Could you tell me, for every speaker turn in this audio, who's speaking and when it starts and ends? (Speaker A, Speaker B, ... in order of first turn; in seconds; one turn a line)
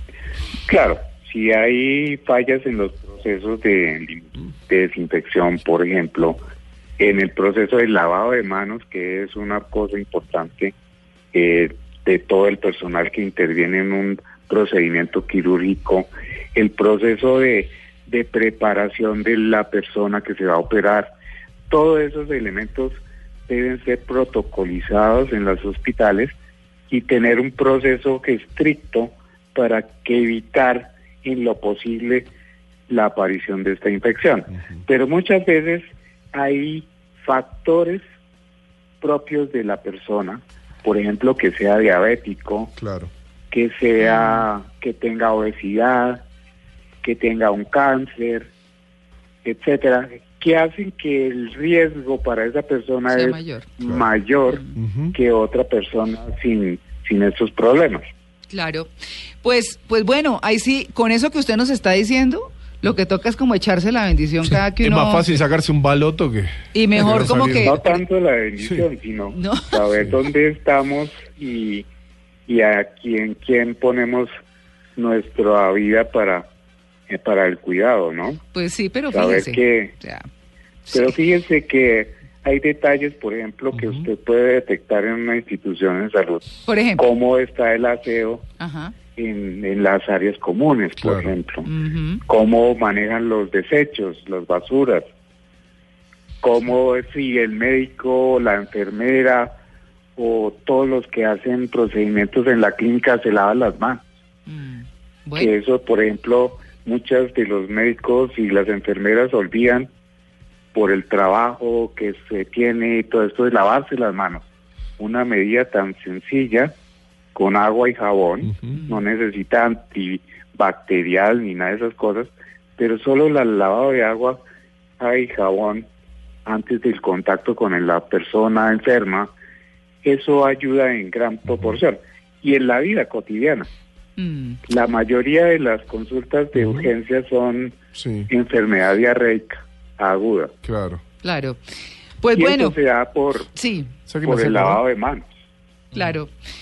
Speaker A: 0.7-6.4
Speaker A: 7.0-10.7
Speaker A: 11.3-21.1
Speaker A: 21.7-26.3
Speaker A: 26.9-32.3
Speaker A: 32.9-38.0
Speaker A: 39.0-42.7
Speaker B: 42.8-43.1
Speaker A: 43.5-46.2
Speaker C: 44.0-44.5
Speaker A: 47.0-48.5
Speaker A: 49.4-58.0
Speaker C: 53.1-53.7
Speaker B: 54.7-55.1
Speaker C: 58.5-58.9
Speaker C: 59.4-65.2
Speaker B: 64.8-67.8
Speaker C: 66.7-68.0
Speaker A: 67.6-71.8
Speaker C: 69.3-69.8
Speaker A: 72.5-74.3
Speaker A: 75.0-76.5
Speaker A: 77.1-78.4
Speaker C: 78.5-80.2
Speaker A: 79.1-79.9
Speaker C: 80.9-81.1
Speaker A: 80.9-88.4
Speaker B: 83.7-84.0
Speaker C: 86.6-87.0
Speaker C: 88.6-88.9
Speaker A: 89.2-91.7
Speaker B: 91.0-91.3
Speaker C: 91.6-92.2
Speaker A: 92.2-95.0
Speaker A: 96.4-99.5
Speaker A: 100.2-104.0
Speaker C: 104.5-105.5
Speaker A: 105.3-109.9
Speaker A: 110.7-114.4
Speaker A: 115.0-116.7
Speaker A: 117.3-124.4
Speaker B: 118.5-118.8
Speaker C: 118.7-119.0
Speaker A: 125.0-125.8
Speaker A: 126.5-129.3
Speaker A: 130.0-133.7
Speaker C: 134.2-134.6
Speaker A: 134.7-137.8
Speaker B: 136.5-136.9
Speaker B: 137.9-138.3
Speaker A: 138.3-140.5
Speaker B: 140.6-141.0
Speaker C: 141.2-141.6
Speaker C: 142.2-142.8
Speaker A: 142.3-143.5
Speaker C: 143.5-143.9
Speaker B: 144.1-144.8
Speaker A: 144.2-145.2
Speaker C: 145.9-146.3